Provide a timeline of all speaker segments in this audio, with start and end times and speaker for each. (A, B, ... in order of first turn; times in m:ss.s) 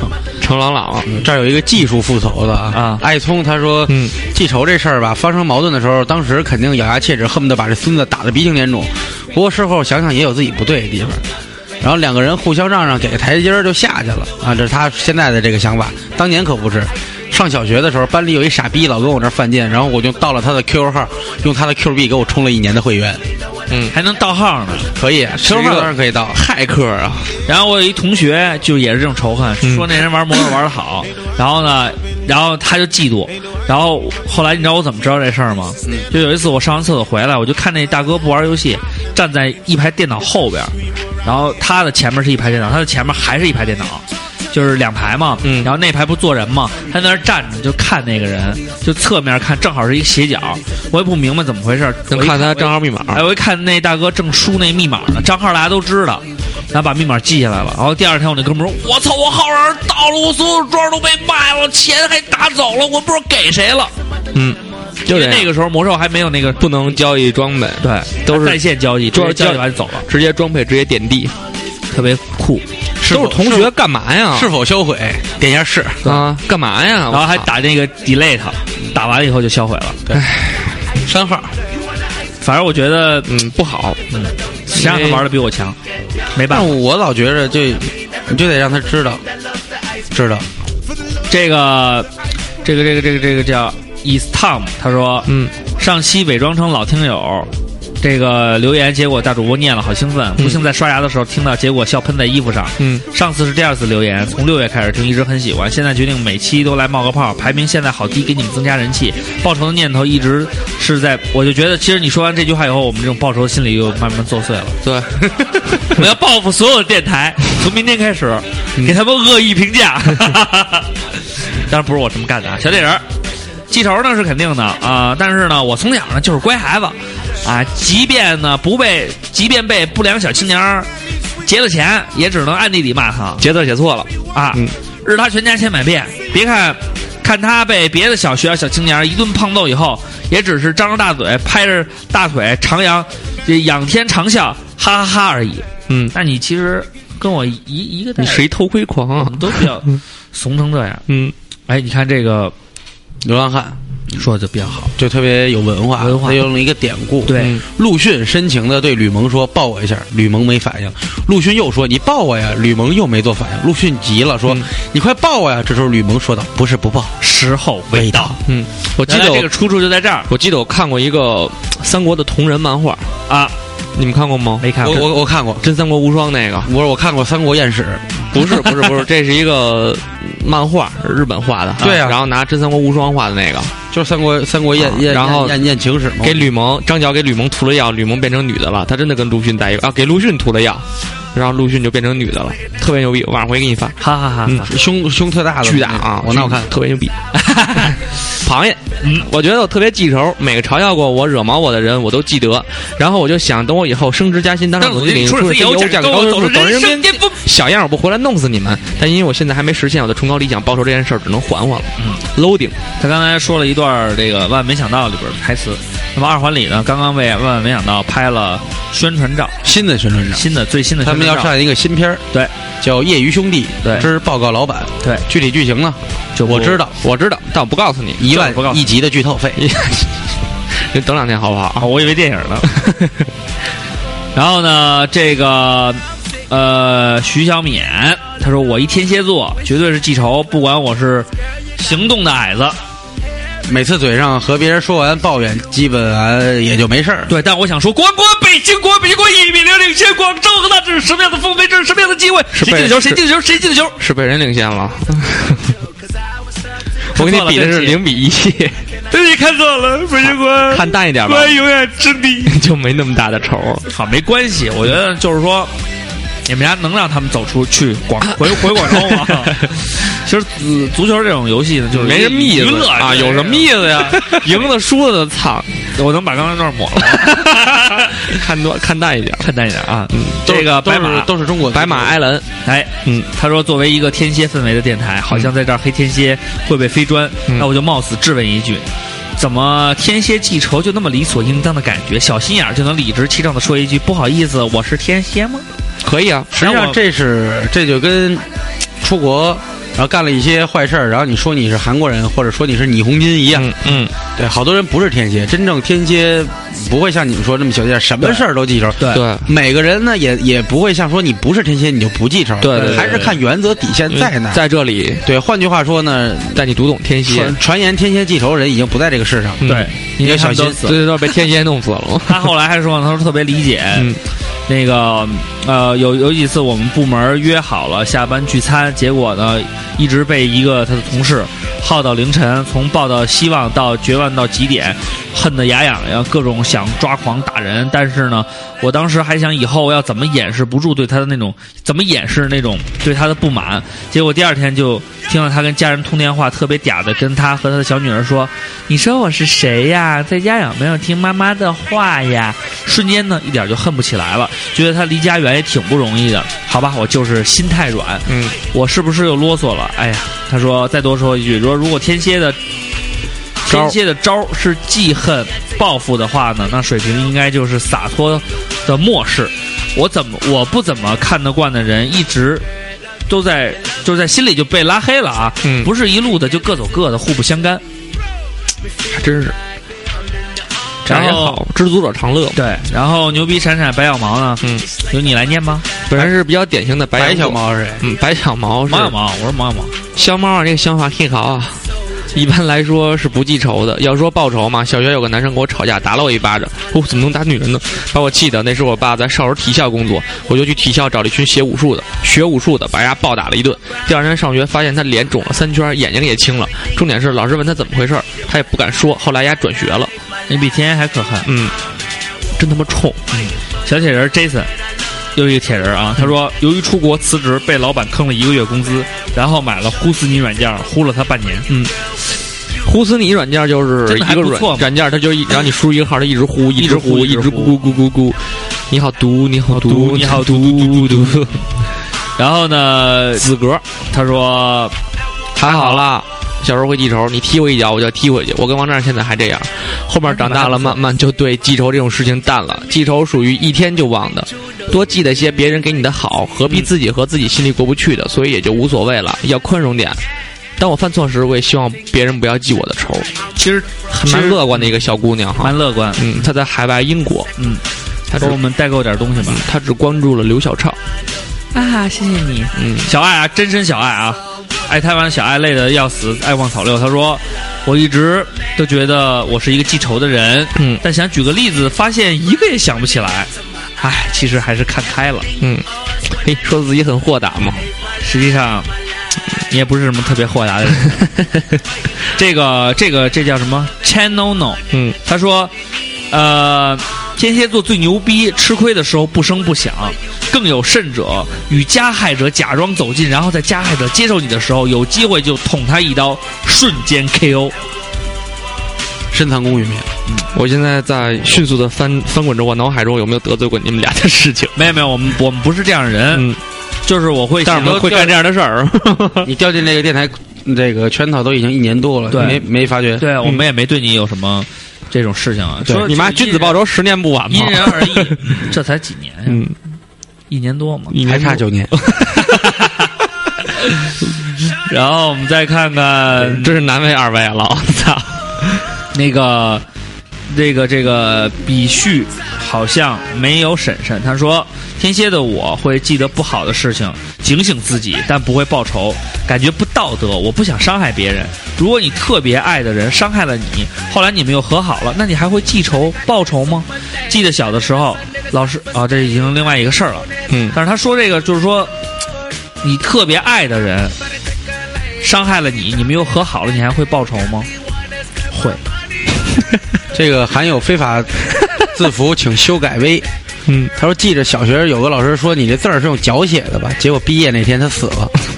0:00.4-0:01.2 A
0:01.1-0:11.2 B
0:02.7-0:03.0 C
0:03.9-0:04.1 A
0:11.8-0:23.2 B
0:23.9-0:24.9 C
0:25.0-0:26.4 B
0:25.5-0:27.3 A
0:27.5-1:03.9 C
0:29.6-0:30.0 A
0:45.4-0:45.7 A
0:52.1-0:53.2 A
1:04.3-1:05.5 A
1:05.1-1:06.7 C
1:06.6-1:11.3 A
1:07.8-1:10.1 C
1:11.9-1:12.7 C
1:13.0-1:13.7 B
1:13.0-1:14.5 A
1:14.3-1:16.1 B
1:16.0-1:17.5 A
1:17.1-1:20.0 C
1:20.2-1:20.7 A
1:21.0-1:21.6 B
1:22.4-1:23.3 C
1:23.3-1:24.0 A
1:24.1-1:25.8 C
1:24.7-1:25.3 A
1:26.4-1:26.8 C
1:26.5-1:29.2 B
1:30.1-1:30.5 B
1:31.3-1:32.1 C
1:32.6-1:37.5 C
1:35.3-1:35.5 A
1:38.0-1:54.8 C
1:40.4-1:40.6 A
1:42.8-1:43.0 A
1:54.8-1:56.0 A
1:55.9-2:00.9 C
2:01.7-2:03.0 C
2:03.7-2:10.9 C
2:11.4-2:13.4 C
2:13.4-2:14.7 A
2:14.3-2:28.5 C
2:25.9-2:26.1 A
2:28.2-2:30.0 A
2:29.2-2:31.0 C
2:31.1-2:31.3 A
2:31.7-2:32.5 C
2:33.2-2:33.8 B
2:34.2-2:34.9 C
2:35.0-2:47.2 B
2:36.0-2:36.5 C
2:37.3-2:37.6 C
2:37.4-2:37.6 A
2:47.2-2:48.4 C
2:47.9-2:48.4 B
2:48.4-2:49.5 A
2:49.1-2:50.3 C
2:50.3-2:53.1 A
2:53.3-2:53.5 C
2:54.0-2:56.7 A
2:54.6-2:55.0 C
2:54.8-2:55.6 B
2:56.6-2:58.2 B
2:58.3-3:03.7 A
2:58.4-2:58.8 C
3:01.8-3:02.0 C
3:01.8-3:02.2 B
3:03.9-3:06.5 B
3:04.8-3:05.6 A
3:06.2-3:14.7 A
3:14.0-3:14.7 C
3:14.6-3:16.7 B
3:15.6-3:17.1 A
3:17.4-3:18.0 C
3:18.4-3:32.8 A
3:19.0-3:19.3 C
3:24.8-3:27.4 C
3:33.0-3:39.6 C
3:39.6-3:40.5 B
3:40.3-3:41.5 C
3:41.0-3:42.2 B
3:42.8-3:47.0 B
3:43.8-3:44.1 C
3:46.4-3:46.8 C
3:46.9-3:48.3 A
3:48.2-3:49.6 B
3:48.3-3:48.8 C
3:49.6-3:50.2 A
3:50.8-3:51.9 A
3:51.8-3:52.7 C
3:52.7-3:53.1 A
3:54.4-4:02.8 C
4:03.7-4:07.3 B
4:07.3-4:14.0 C
4:12.6-4:13.2 A
4:14.0-4:15.7 A
4:17.1-4:18.8 A
4:17.2-4:18.0 C
4:19.1-4:22.6 C
4:20.7-4:21.6 A
4:22.5-4:23.8 A
4:23.9-4:25.7 C
4:26.5-4:34.6 C
4:28.4-4:29.7 A
4:31.9-4:35.7 A
4:36.0-4:38.4 C
4:37.2-4:39.5 A
4:39.4-4:41.3 C
4:40.1-4:40.4 A
4:40.4-4:42.2 B
4:41.7-4:42.5 A
4:42.6-4:55.6 C
4:56.0-4:56.5 A
4:56.5-4:58.5 B
4:56.6-4:57.0 C
4:59.0-5:03.7 B
5:03.5-5:04.1 A
5:04.4-5:14.6 B
5:09.0-5:09.2 C
5:09.1-5:09.5 A
5:12.6-5:13.3 A
5:12.7-5:13.4 C
5:14.1-5:15.2 A
5:15.2-5:16.6 B
5:16.5-5:17.6 A
5:17.2-5:19.7 B
5:19.6-5:21.3 C
5:19.6-5:22.5 A
5:20.2-5:20.9 B
5:22.3-5:24.1 C
5:23.9-5:24.2 A
5:24.7-6:02.6 C
5:58.3-5:58.6 A
6:03.6-6:12.7 C
6:03.7-6:04.0 A
6:13.3-6:17.8 C
6:15.6-6:15.9 A
6:19.1-6:19.6 A
6:21.1-6:21.6 C
6:21.1-6:22.6 A
6:22.6-6:25.9 C
6:26.1-6:29.2 A
6:27.2-6:28.0 B
6:28.9-6:29.9 C
6:30.2-6:50.1 A
6:50.5-6:51.5 C
6:51.4-6:51.8 A
6:52.6-6:53.2 A
6:53.3-6:54.7 C
6:55.4-7:01.7 C
7:02.8-7:11.6 A
7:04.1-7:04.9 C
7:06.8-7:07.8 C
7:09.7-7:11.6 C
7:12.4-7:13.5 C
7:13.4-7:13.8 A
7:14.1-7:15.0 C
7:15.6-7:30.2 A
7:15.6-7:16.1 C
7:20.3-7:21.0 C
7:26.7-7:26.9 C
7:30.8-7:33.3 A
7:33.6-7:35.1 C
7:34.1-7:37.5 A
7:35.6-7:36.5 C
7:37.6-7:37.8 C
7:38.3-7:38.6 A
7:38.4-7:39.6 C
7:39.4-7:41.0 A
7:41.7-7:55.5 C
7:42.8-7:43.1 A
7:50.8-7:51.0 A
7:55.6-7:57.8 A
7:58.2-7:58.9 C
7:59.7-8:01.3 C
8:02.3-8:05.7 C
8:04.9-8:05.2 A
8:06.3-8:17.8 C
8:19.3-8:20.1 B
8:20.5-8:24.8 A
8:24.8-8:26.5 C
8:26.3-8:26.6 A
8:27.1-8:28.4 C
8:27.6-8:29.5 A
8:29.4-8:33.3 B
8:32.3-8:32.6 C
8:33.2-8:36.8 C
8:35.9-8:38.6 A
8:37.5-8:39.6 C
8:39.5-8:39.7 A
8:40.5-8:41.2 C
8:41.1-8:42.9 A
8:41.2-8:41.9 B
8:42.3-8:43.1 C
8:43.9-8:44.1 C
8:44.9-8:46.7 C
8:46.4-8:48.8 A
8:49.1-8:49.8 C
8:50.5-9:11.9 C
9:10.5-9:10.8 A
9:12.8-9:14.2 C
9:15.2-9:17.7 C
9:18.5-9:18.8 C
9:20.1-9:23.3 B
9:23.9-9:28.3 B